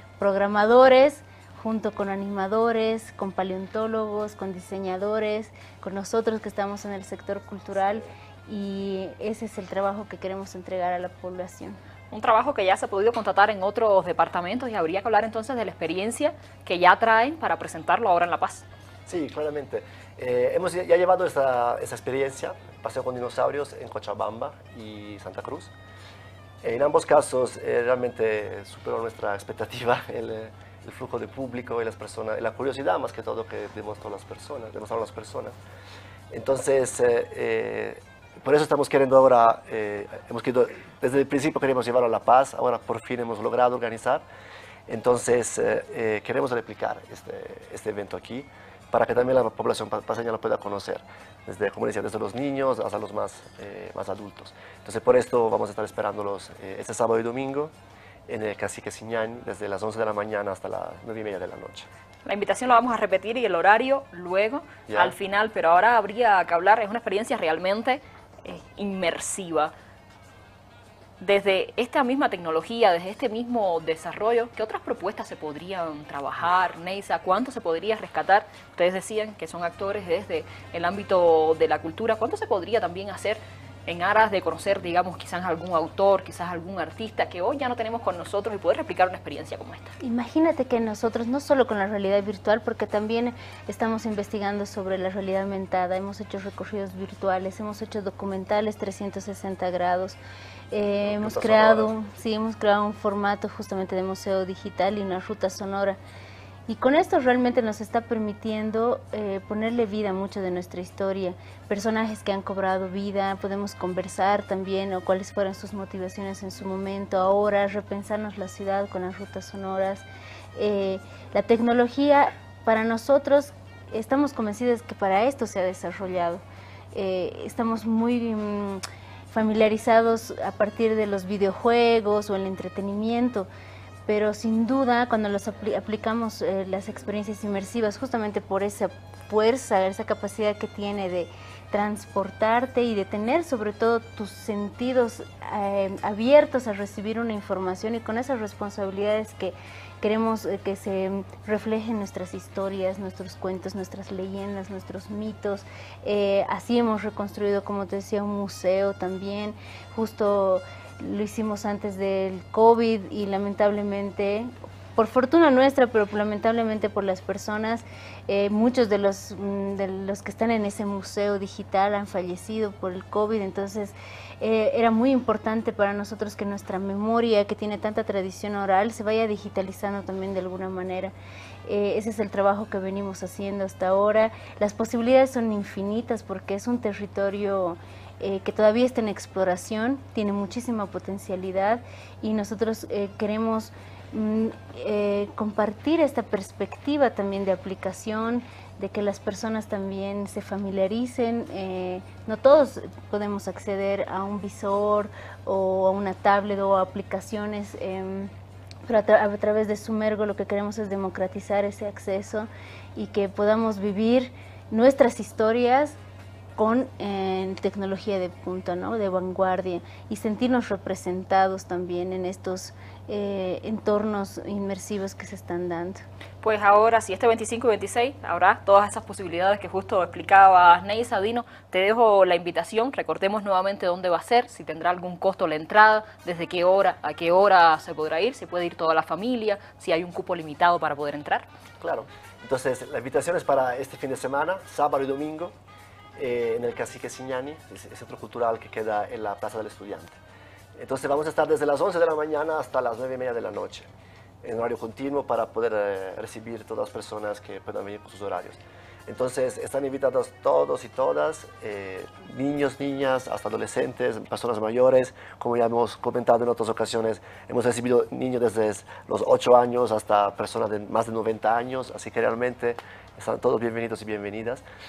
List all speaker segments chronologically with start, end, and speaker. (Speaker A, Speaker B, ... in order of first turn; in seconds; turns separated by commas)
Speaker A: 0.2-11.8, Speaker B: 12.1-18.6, Speaker C: 19.1-25.7, Speaker C: 26.6-35.6, Speaker C: 36.3-44.2, Speaker C: 44.9-57.7, Speaker C: 58.3-61.9, Speaker B: 62.2-69.7, Speaker C: 64.9-65.2, Speaker B: 71.2-89.9, Speaker A: 90.0-100.2, Speaker A: 100.7-106.0, Speaker C: 101.0-101.9, Speaker A: 106.7-133.5, Speaker A: 134.1-181.1, Speaker A: 181.7-208.3, Speaker A: 208.9-216.0, Speaker A: 216.6-226.0, Speaker B: 226.4-241.5, Speaker C: 241.8-245.6, Speaker C: 246.2-250.2, Speaker C: 250.8-253.9, Speaker C: 254.4-274.6